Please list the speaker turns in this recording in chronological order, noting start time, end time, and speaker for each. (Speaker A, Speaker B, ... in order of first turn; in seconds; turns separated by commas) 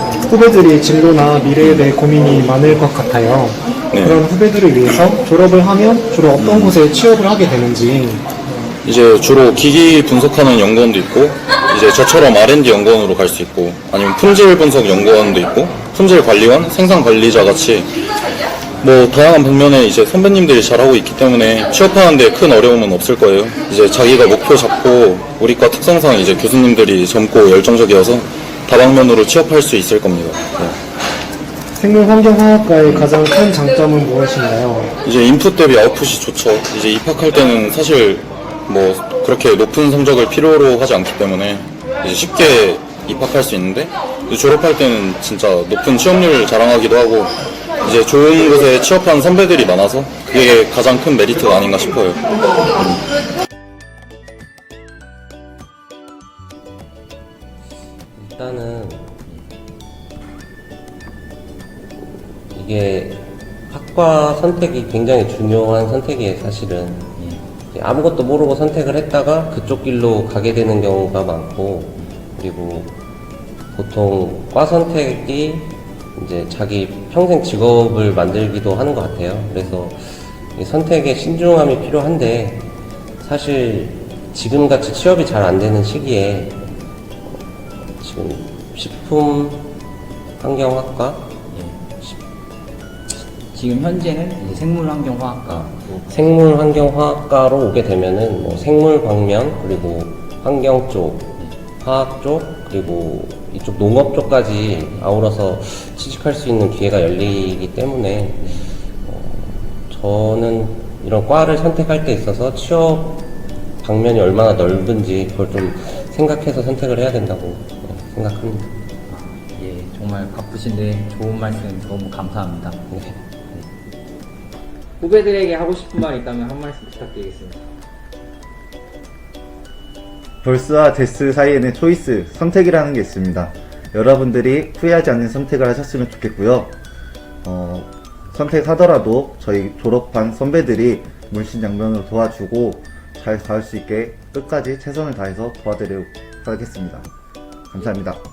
Speaker A: 0.2-8.2, Speaker B: 3.9-4.2, Speaker B: 6.3-6.8, Speaker B: 8.8-17.9, Speaker B: 18.8-30.8, Speaker A: 31.8-34.9, Speaker B: 32.8-33.1, Speaker B: 35.0-52.2, Speaker C: 58.1-59.2, Speaker C: 62.5-67.1, Speaker C: 67.7-73.0, Speaker C: 73.7-86.7, Speaker C: 87.3-89.7, Speaker C: 90.4-91.5, Speaker D: 91.5-91.8, Speaker D: 93.5-96.4, Speaker C: 96.1-118.7, Speaker D: 108.4-108.7, Speaker D: 119.1-122.8, Speaker C: 122.9-123.2, Speaker D: 125.0-127.6, Speaker E: 130.4-136.7, Speaker E: 137.4-147.1, Speaker E: 147.7-148.2